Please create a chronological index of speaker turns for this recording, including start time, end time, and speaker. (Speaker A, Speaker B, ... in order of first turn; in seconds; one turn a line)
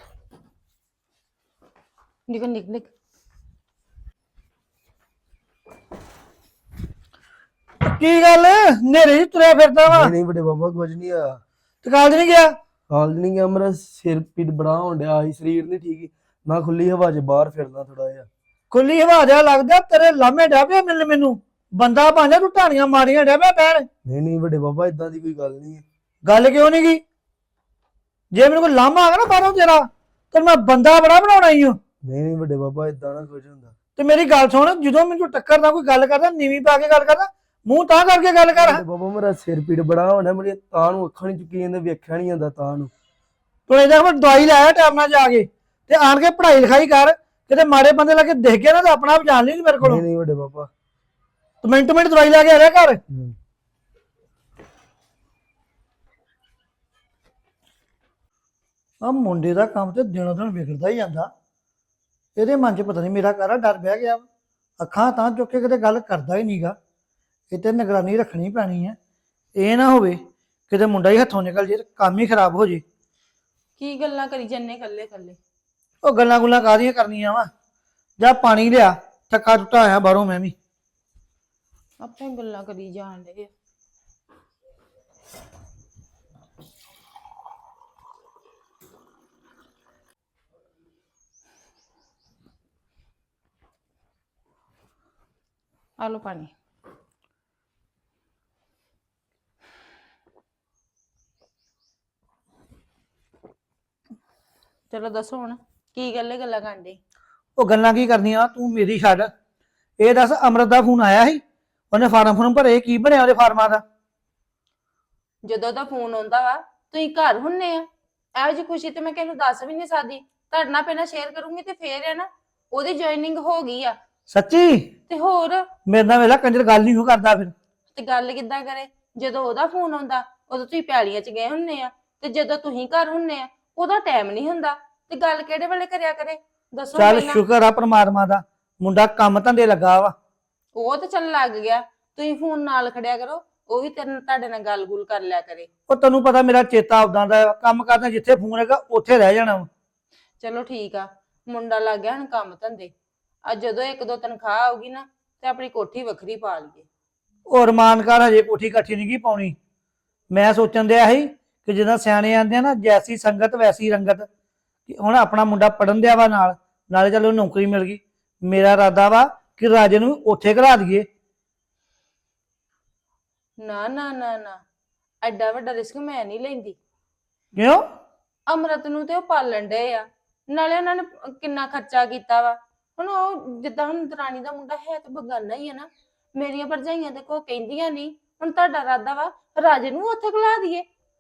Speaker A: 2.3-2.9
Speaker B: 7.8-10.1
Speaker C: 9.9-11.4
Speaker B: 11.8-12.5
Speaker C: 12.9-18.3
Speaker B: 18.7-23.9
Speaker C: 24.1-25.8
Speaker B: 26.2-27.0
Speaker B: 28.3-31.8
Speaker C: 32.0-33.7
Speaker B: 34.0-38.8
Speaker C: 38.5-42.9
Speaker B: 43.7-50.0
Speaker C: 49.8-50.7
Speaker B: 51.6-53.0
Speaker B: 59.0-61.3
Speaker B: 62.4-64.2
Speaker B: 64.8-66.8
Speaker B: 67.5-69.0
Speaker B: 69.6-70.2
Speaker B: 70.7-72.8
Speaker A: 73.8-75.4
Speaker B: 76.0-77.5
Speaker B: 78.2-80.5
Speaker A: 82.0-83.5
Speaker A: 96.0-96.5
Speaker A: 104.9-107.0
Speaker B: 107.6-109.3
Speaker B: 110.0-111.4
Speaker B: 111.9-113.8
Speaker A: 115.5-124.0
Speaker B: 124.3-124.9
Speaker A: 125.1-125.7
Speaker B: 125.9-127.5
Speaker A: 127.9-137.4
Speaker B: 136.9-140.1
Speaker A: 140.8-145.7
Speaker B: 145.9-149.7
Speaker A: 150.4-152.9
Speaker A: 153.5-156.9
Speaker B: 157.5-159.6
Speaker B: 160.3-164.3
Speaker B: 164.9-171.1
Speaker A: 173.6-174.6
Speaker A: 175.2-176.8
Speaker B: 177.6-177.8
Speaker A: 178.5-190.8